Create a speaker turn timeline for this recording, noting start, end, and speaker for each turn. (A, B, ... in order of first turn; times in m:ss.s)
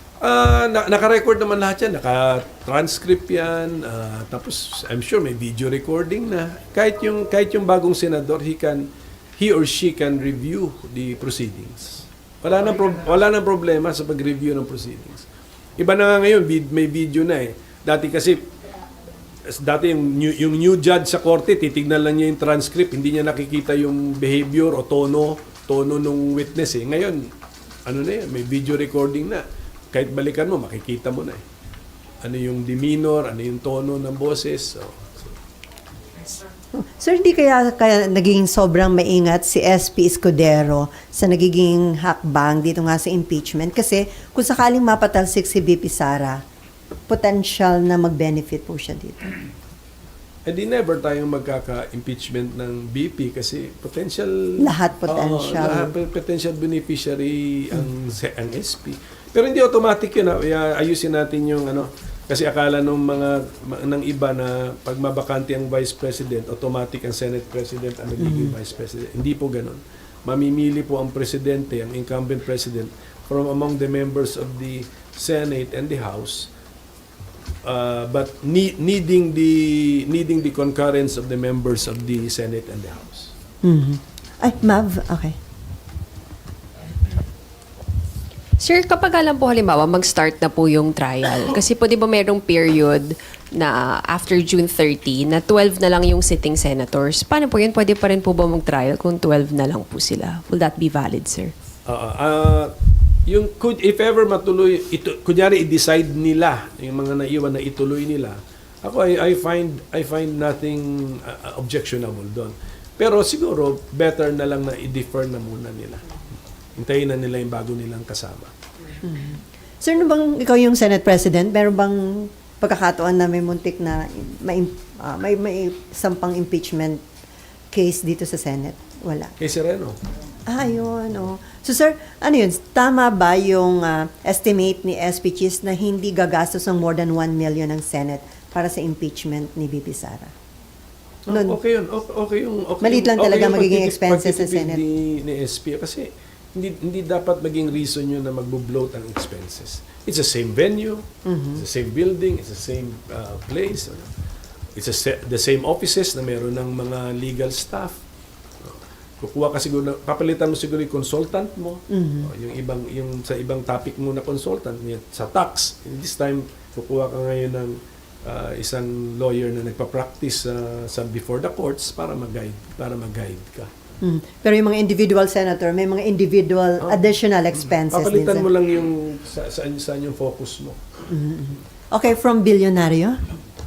0:00.2-0:08.9 A
0:09.4-0:15.3 A
0:15.8-0:18.4 A
0:19.5-0:27.3 A
0:27.9-0:31.4 A
0:32.2-0:35.3 A
0:36.8-0:46.4 B
0:47.1-0:49.4 B
0:50.5-1:16.5 A
0:54.6-0:55.9 B
1:08.2-1:08.5 B
1:17.6-1:23.3 A
1:23.6-1:25.4 B
1:28.6-1:41.5 C
1:41.9-1:42.7 A
1:43.3-1:56.1 A
1:56.8-1:58.5 A
1:59.0-2:07.0 B
2:07.7-2:09.3 B
2:09.4-2:10.0 A
2:10.5-2:20.3 B
2:21.3-2:34.1 A
2:21.3-2:21.6 B
2:22.8-2:24.8 B
2:31.2-2:31.6 B
2:34.8-2:38.0 A
2:38.6-2:53.7 A
2:41.9-2:42.3 B
2:54.0-2:58.5 B
2:56.8-3:00.8 A
3:01.1-3:03.2 B